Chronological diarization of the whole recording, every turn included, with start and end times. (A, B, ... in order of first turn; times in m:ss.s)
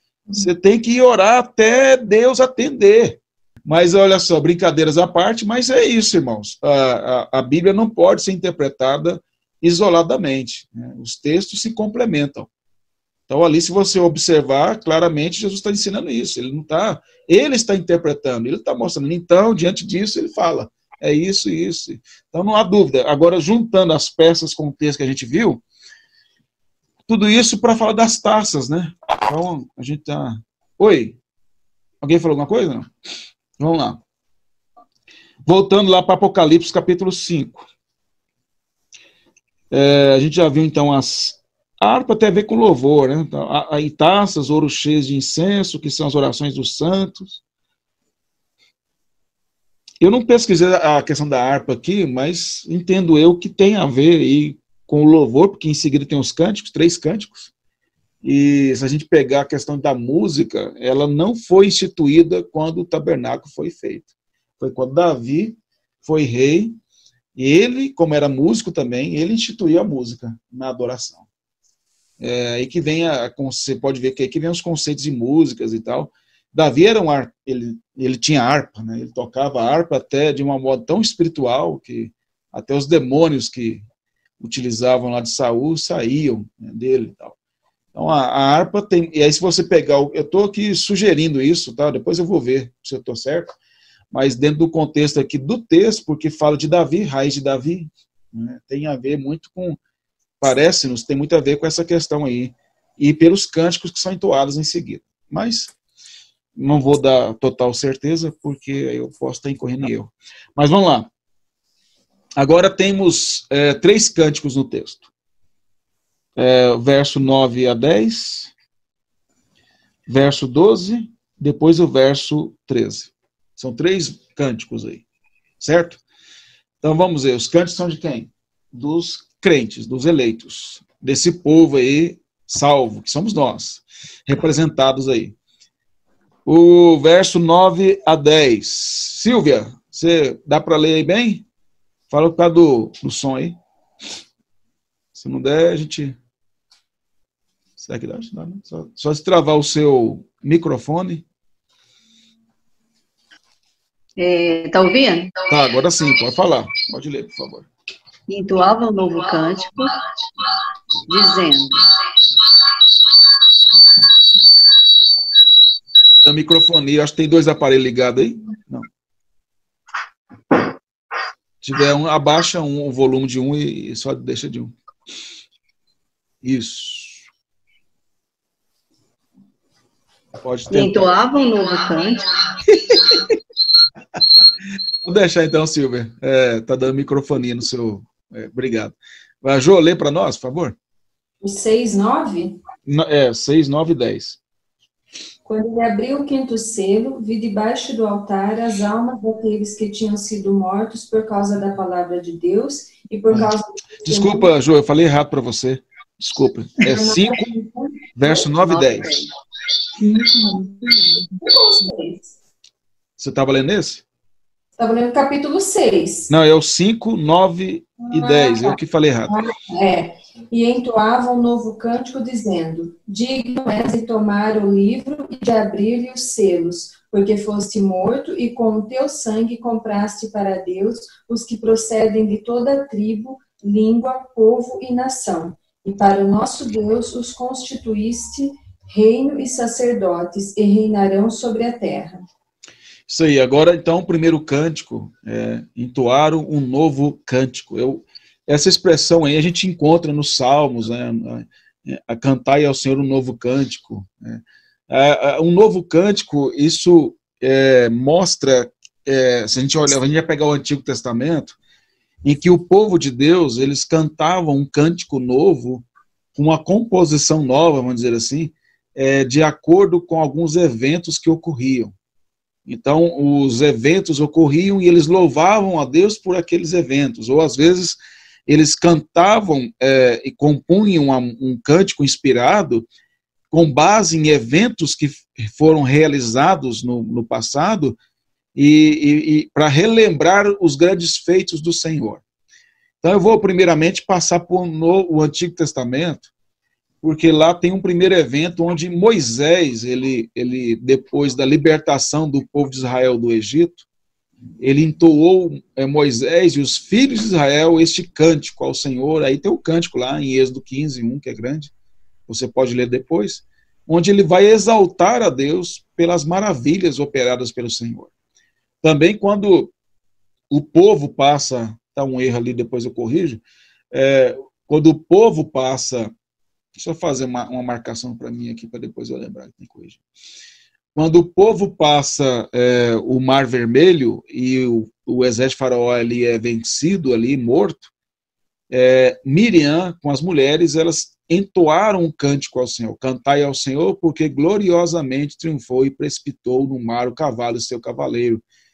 0:00.4-0:12.5 A
0:13.3-0:25.6 A
0:27.1-0:31.2 A
0:32.0-0:32.9 A
0:33.6-0:34.0 A
0:35.4-0:37.7 A
0:39.7-0:47.4 A
0:50.0-0:57.5 A
0:58.2-1:06.7 A
1:07.4-1:11.2 A
1:12.2-1:23.8 A
1:24.4-1:27.3 A
1:27.9-1:33.6 A
1:34.1-1:39.8 A
1:40.4-1:45.7 A
1:46.6-1:51.1 A
1:52.4-1:55.0 A
1:56.4-1:58.5 A
2:00.1-2:05.0 A
2:05.6-2:06.0 A
2:06.8-2:15.3 A
2:16.4-2:21.4 A
2:22.1-2:23.6 A
2:25.1-2:26.2 A
2:27.8-2:31.2 A
2:34.2-2:35.4 B
2:35.5-2:37.7 A
2:38.3-2:39.9 B
2:41.1-2:41.8 B
2:46.2-2:48.9 A
2:51.6-2:54.7 A
2:56.4-2:57.2 A
3:00.4-3:01.1 A
3:00.7-3:02.2 B
3:05.0-3:10.7 A
3:11.4-3:12.6 C
3:12.8-3:14.4 A
3:15.4-3:24.5 C
3:24.0-3:27.5 A
3:26.8-3:28.0 C
3:28.1-3:29.2 A
3:28.6-3:29.3 B
3:30.0-3:32.3 C
3:33.2-3:34.0 A
3:34.8-3:36.3 C
3:36.3-3:39.4 A
3:38.0-3:38.8 C
3:39.3-4:02.2 C
4:03.1-4:21.6 A
4:22.2-4:31.9 A
4:32.7-4:42.8 A
4:43.5-4:48.0 A
4:48.5-4:52.2 A
4:53.0-4:56.3 A
4:57.0-5:03.8 A
5:04.6-5:11.7 A
5:12.3-5:18.1 A
5:18.8-5:19.7 A
5:20.5-5:26.1 A
5:26.8-5:30.0 A
5:30.9-5:37.9 A
5:38.7-5:48.4 A